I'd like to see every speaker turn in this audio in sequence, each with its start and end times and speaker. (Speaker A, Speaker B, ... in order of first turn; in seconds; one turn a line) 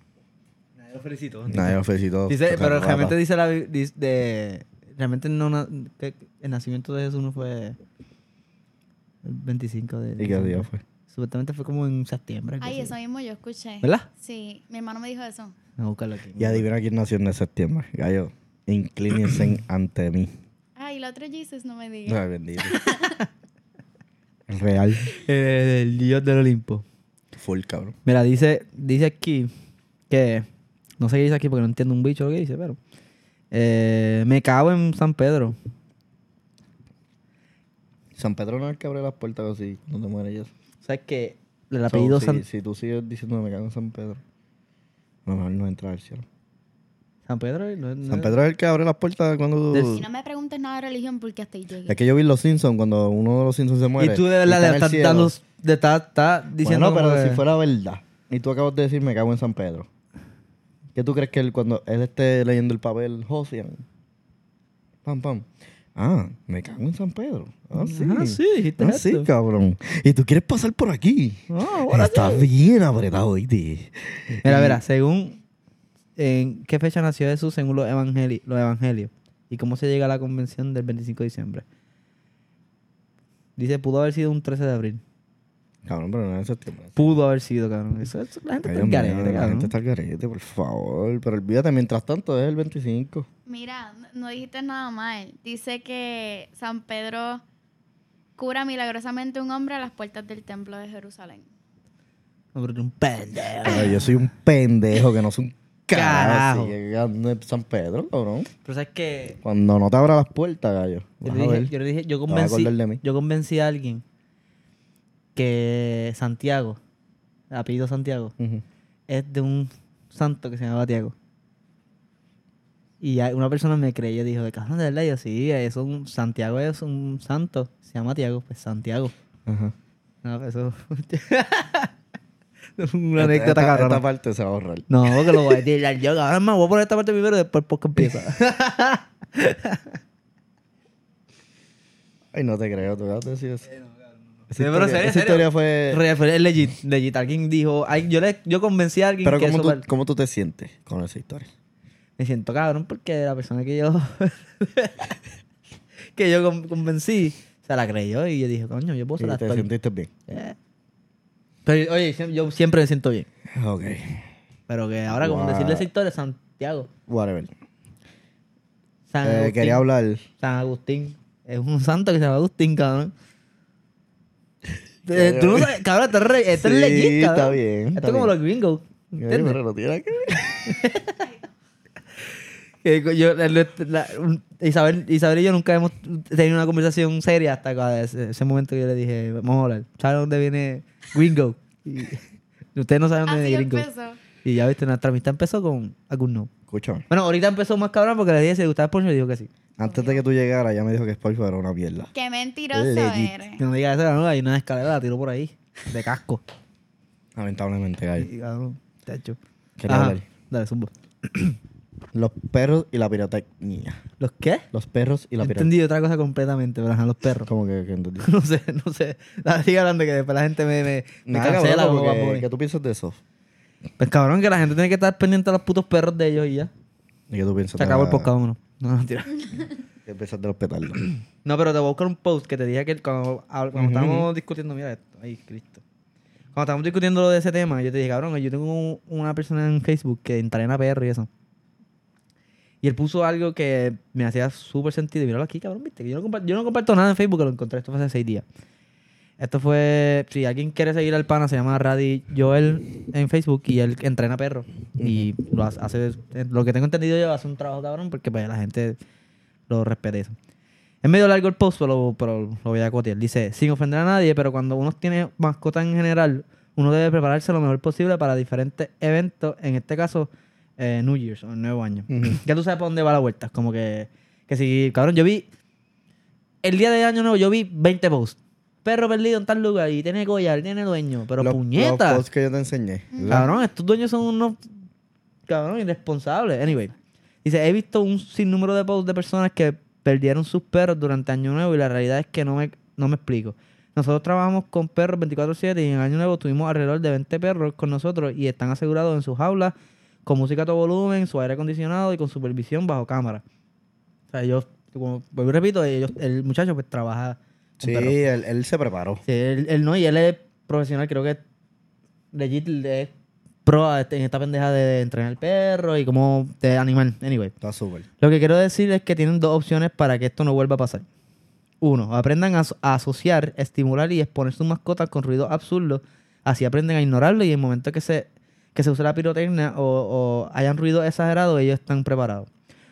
Speaker A: 0.8-7.8
Speaker B: 1.5-3.2
Speaker A: 9.2-12.9
Speaker B: 10.2-10.8
Speaker C: 12.6-15.6
Speaker A: 15.8-16.7
Speaker B: 16.4-20.3
Speaker C: 20.8-22.2
Speaker B: 22.1-22.8
Speaker A: 22.7-23.2
Speaker C: 22.8-23.1
Speaker B: 24.5-25.1
Speaker A: 25.1-26.9
Speaker B: 27.4-27.9
Speaker A: 28.1-29.5
Speaker A: 30.1-30.5
Speaker A: 31.0-32.8
Speaker A: 33.5-35.5
Speaker B: 38.2-40.5
Speaker A: 40.8-42.4
Speaker B: 41.9-44.2
Speaker B: 45.3-46.2
Speaker A: 47.3-48.4
Speaker B: 48.1-50.0
Speaker A: 49.7-50.0
Speaker C: 49.9-52.0
Speaker B: 51.9-55.3
Speaker A: 54.0-57.4
Speaker B: 56.6-59.9
Speaker B: 61.0-63.8
Speaker B: 65.0-74.8
Speaker A: 67.8-69.3
Speaker A: 71.5-72.4
Speaker A: 74.4-75.4
Speaker A: 76.2-81.6
Speaker A: 83.6-85.0
Speaker B: 85.8-87.0
Speaker A: 87.0-89.7
Speaker B: 88.6-93.3
Speaker C: 93.5-97.4
Speaker C: 98.4-101.5
Speaker A: 102.5-104.2
Speaker B: 103.6-108.5
Speaker A: 105.9-106.8
Speaker A: 108.6-109.4
Speaker B: 109.4-111.7
Speaker A: 111.2-114.0
Speaker B: 112.3-113.0
Speaker A: 115.4-116.8
Speaker A: 117.5-118.3
Speaker B: 118.4-118.6
Speaker A: 119.1-121.1
Speaker A: 123.0-129.1
Speaker B: 129.5-129.7
Speaker A: 130.2-131.9
Speaker A: 132.8-134.0
Speaker B: 133.2-135.6
Speaker A: 134.9-140.0
Speaker B: 142.3-143.7
Speaker A: 143.7-149.8
Speaker B: 144.5-146.0
Speaker B: 149.2-151.5
Speaker A: 152.2-155.2
Speaker A: 156.1-159.7
Speaker B: 159.2-160.1
Speaker A: 160.3-160.6
Speaker A: 161.7-163.3
Speaker B: 163.5-164.3
Speaker A: 164.7-166.9
Speaker B: 165.1-165.9
Speaker B: 167.1-167.5
Speaker A: 169.1-169.8
Speaker B: 169.2-170.2
Speaker A: 170.4-173.1
Speaker A: 175.1-179.6
Speaker B: 175.1-175.7
Speaker B: 176.5-178.4
Speaker B: 179.2-180.7
Speaker A: 180.4-181.3
Speaker A: 182.8-192.2
Speaker A: 192.8-193.9
Speaker C: 193.3-194.2
Speaker A: 194.4-196.5
Speaker B: 196.7-197.1
Speaker A: 197.1-199.5
Speaker B: 199.8-202.1
Speaker C: 199.8-200.2
Speaker C: 202.1-203.6
Speaker B: 202.7-203.3
Speaker A: 203.6-206.4
Speaker B: 207.3-208.3
Speaker A: 208.2-211.6
Speaker B: 209.8-210.2
Speaker B: 212.1-214.0
Speaker A: 214.2-214.6
Speaker B: 214.7-215.7
Speaker A: 215.4-217.5
Speaker B: 217.5-218.3
Speaker A: 218.2-222.5
Speaker B: 221.3-223.2
Speaker A: 224.0-226.7
Speaker B: 227.3-228.3
Speaker A: 227.8-229.7
Speaker B: 230.1-231.0
Speaker A: 231.4-235.8
Speaker B: 233.8-234.3
Speaker A: 236.6-241.3
Speaker A: 242.8-248.4
Speaker A: 249.4-259.0
Speaker B: 255.0-255.3
Speaker A: 259.7-260.4
Speaker A: 261.0-275.5
Speaker B: 272.1-272.4
Speaker A: 276.6-282.2
Speaker B: 281.4-283.5
Speaker C: 283.1-283.5
Speaker A: 283.3-284.6
Speaker A: 285.5-286.9
Speaker A: 287.4-299.7
Speaker A: 300.3-303.4
Speaker A: 304.3-308.2
Speaker B: 307.8-309.2
Speaker A: 309.3-311.4
Speaker A: 312.3-313.1
Speaker A: 313.6-317.5
Speaker B: 317.6-318.1
Speaker A: 318.2-321.1
Speaker A: 321.8-332.5